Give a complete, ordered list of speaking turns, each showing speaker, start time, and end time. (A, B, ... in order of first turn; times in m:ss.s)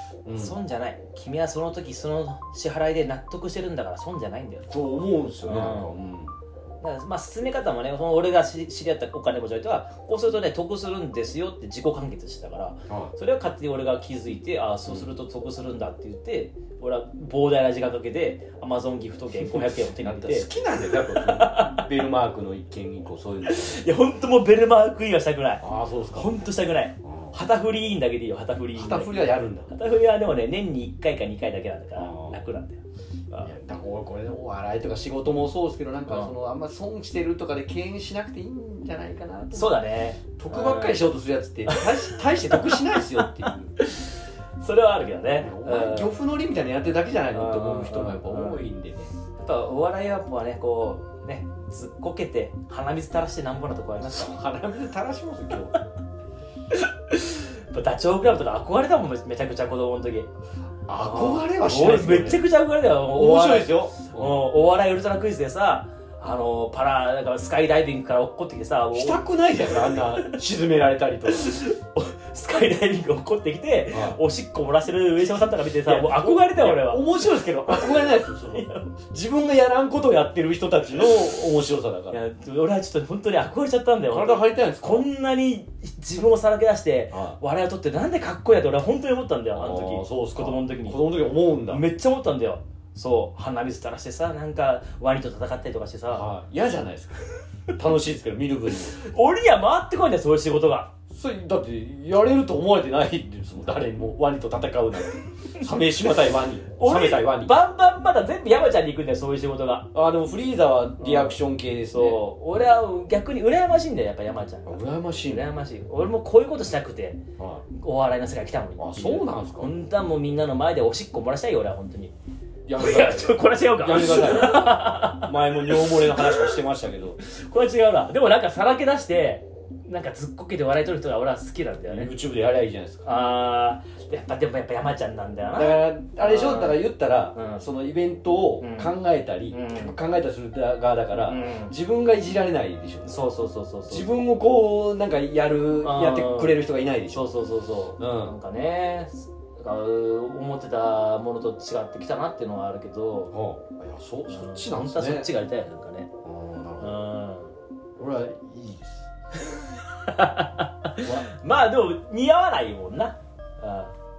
0:00.2-0:00.6 A
0:00.3-0:04.7 B
0:04.7-0:06.3 A
0:05.4-0:05.9 B
0:06.8-0:22.0 B
0:12.9-0:13.1 A
0:14.9-0:15.1 A
0:19.3-0:23.8 A
0:23.4-0:33.6 B
0:25.6-0:26.3 A
0:27.0-0:27.4 A
0:28.7-0:29.7 A
0:32.0-0:32.4 A
0:33.4-0:39.8 A
0:36.1-0:36.3 B
0:39.5-0:41.1 B
0:40.4-0:43.7 A
0:41.7-0:46.2 B
0:45.3-0:49.2 A
0:47.3-0:48.7 B
0:49.4-0:54.4 B
0:54.0-0:55.8 A
0:56.7-1:00.3 B
1:00.9-1:02.5 A
1:00.9-1:10.4 B
1:03.0-1:04.5 A
1:08.9-1:11.6 A
1:11.3-1:17.1 B
1:13.9-1:14.2 A
1:15.3-1:22.2 A
1:17.7-1:18.9 B
1:22.1-1:36.3 B
1:24.0-1:25.1 A
1:27.1-1:27.4 A
1:29.5-1:31.8 A
1:36.1-1:37.2 A
1:37.7-1:39.0 A
1:38.8-1:40.9 B
1:41.1-1:47.6 A
1:46.7-1:49.9 B
1:49.9-1:52.2 A
1:51.0-1:51.4 B
1:51.9-1:57.2 B
1:54.6-1:55.5 A
1:57.4-1:57.6 A
1:57.7-2:02.1 B
1:58.8-1:59.7 A
2:02.6-2:07.2 A
2:02.7-2:06.6 B
2:07.2-2:12.1 B
2:11.9-2:13.0 A
2:13.0-2:17.6 B
2:15.5-2:23.1 A
2:18.6-2:18.9 B
2:19.5-2:20.0 B
2:21.3-2:21.7 B
2:23.0-2:24.1 B
2:23.9-2:27.3 A
2:25.8-2:33.3 B
2:28.0-2:28.3 A
2:33.3-2:35.3 A
2:34.3-2:36.1 B
2:36.2-2:37.0 A
2:36.8-2:37.5 B
2:38.0-2:39.1 A
2:39.4-2:43.9 B
2:41.0-2:41.3 A